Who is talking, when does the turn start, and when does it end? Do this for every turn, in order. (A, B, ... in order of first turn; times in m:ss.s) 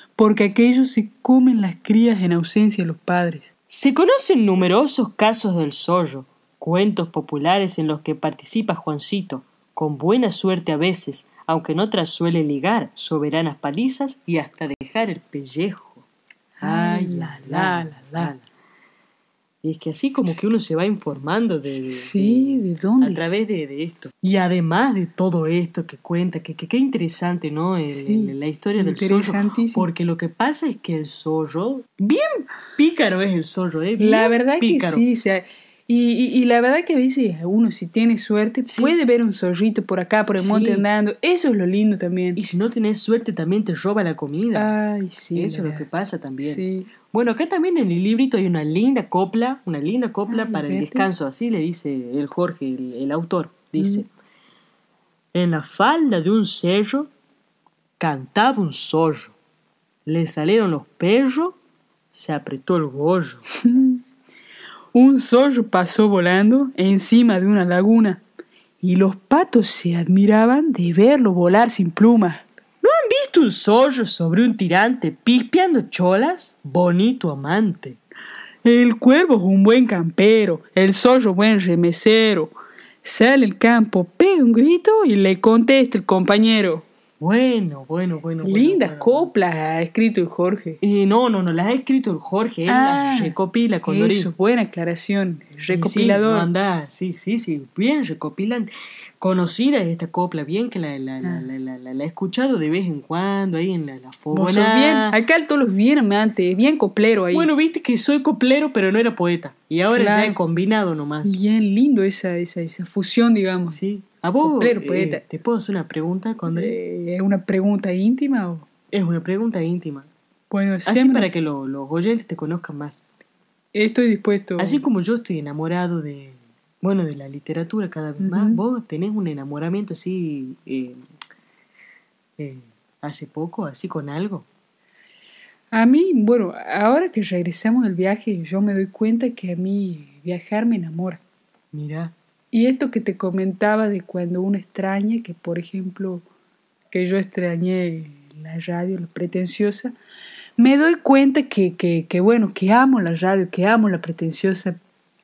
0:00.2-0:03.5 A
0:03.7-0:16.0 B
0:16.6-0:18.3 A
0:16.6-0:18.4 B
0:19.6-0:35.0 B
0:21.9-0:23.2 A
0:27.9-0:29.9 A
0:34.0-0:42.4 A
0:38.7-0:39.0 B
0:40.4-0:40.9 B
0:42.4-0:44.7 B
0:44.5-0:45.8 A
0:45.4-0:54.1 B
0:46.4-0:46.9 A
0:50.3-0:51.1 A
0:53.8-0:54.0 A
0:55.3-0:57.1 B
0:58.0-0:59.4 B
1:00.1-1:01.6 B
1:02.1-1:03.4 B
1:03.6-1:04.0 A
1:04.9-1:08.2 A
1:08.8-1:12.4 A
1:12.8-1:18.0 B
1:18.6-1:22.5 A
1:23.0-1:26.8 A
1:27.2-1:29.3 B
1:28.4-1:30.8 A
1:30.8-1:34.3 B
1:32.7-1:36.5 A
1:35.7-1:45.2 B
1:41.2-1:41.5 A
1:44.3-1:47.5 A
1:47.3-1:51.4 B
1:49.9-1:50.4 A
1:51.2-1:53.8 A
1:53.7-1:56.8 B
1:54.4-1:55.2 A
1:56.5-1:58.7 A
1:58.9-2:00.1 B
2:00.5-2:01.3 A
2:00.9-2:03.0 B
2:03.7-2:04.8 A
2:04.6-2:11.0 B
2:08.2-2:08.6 A
2:12.4-2:14.5 B
2:15.7-2:21.2 A
2:21.7-2:22.1 B
2:22.5-2:26.2 A
2:26.9-2:29.9 A
2:30.6-2:34.8 A